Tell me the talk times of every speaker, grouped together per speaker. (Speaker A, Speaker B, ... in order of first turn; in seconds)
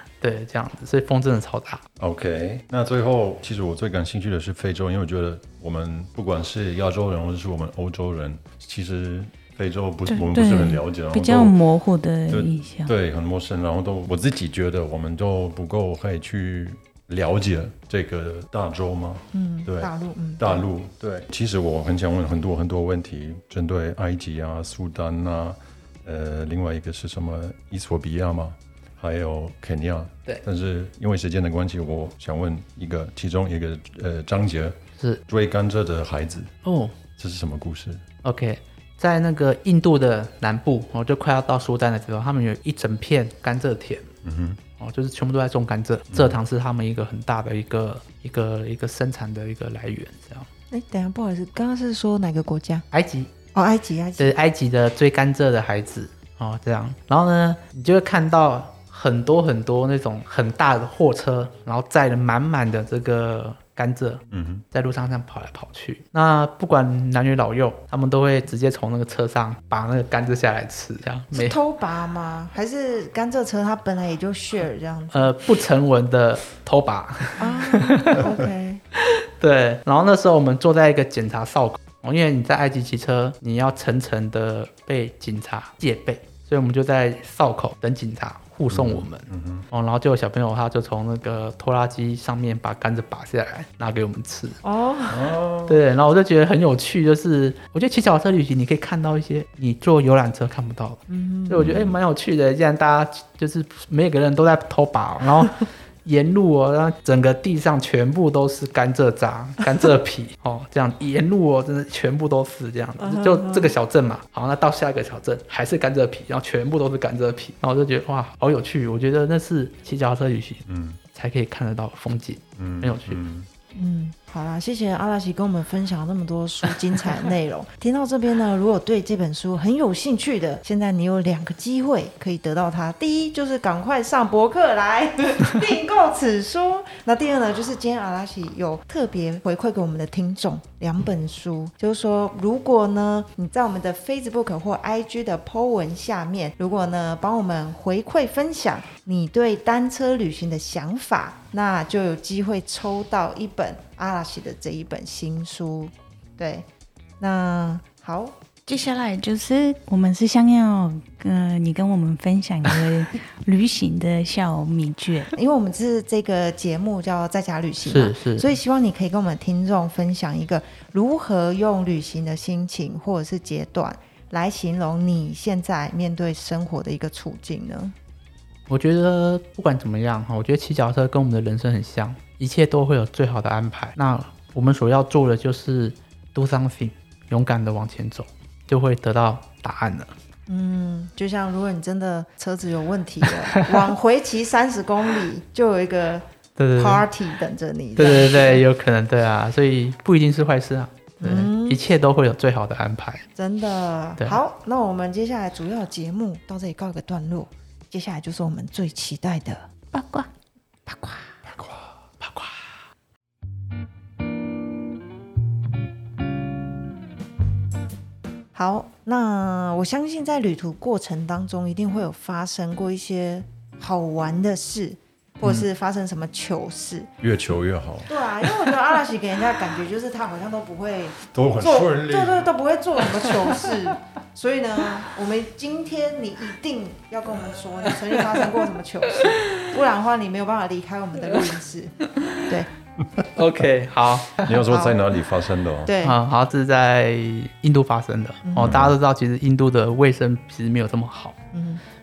Speaker A: 0.2-1.8, 36.6-37.0, 38.2-44.1, 44.8-50.5, 52.9-53.3, 54.2-71.6, 75.1-78.3, 79.0-94.6, 95.7-123.2, 167.9-168.5, 178.7-190.1, 196.6-197.1, 198.0-203.3, 212.2-212.6, 243.3-244.6, 246.0-251.4
Speaker B: 2.0-11.6, 12.3-36.5, 37.1-38.0, 44.2-44.6, 46.1-46.4, 64.3-64.7, 88.7-89.7, 95.1-95.8, 101.6-101.9, 120.7-121.0, 122.6-123.5, 211.5-211.9, 227.2-228.1, 231.3-232.5, 244.4-245.9, 248.6-249.0
Speaker C: 10.1-12.9, 158.7-165.3, 209.9-210.3
Speaker D: 19.3-20.6, 50.7-52.9, 53.5-54.3, 71.3-75.3, 77.4-78.8, 94.6-95.3, 101.1-101.7, 113.0-113.8, 123.8-156.7, 157.2-158.4, 165.3-177.9, 190.5-196.2, 196.8-198.6, 201.2-201.8, 203.4-209.7, 210.9-211.4, 218.5-227.1, 228.1-242.7, 244.7-245.0, 245.8-246.2, 248.5-248.8, 251.5-251.8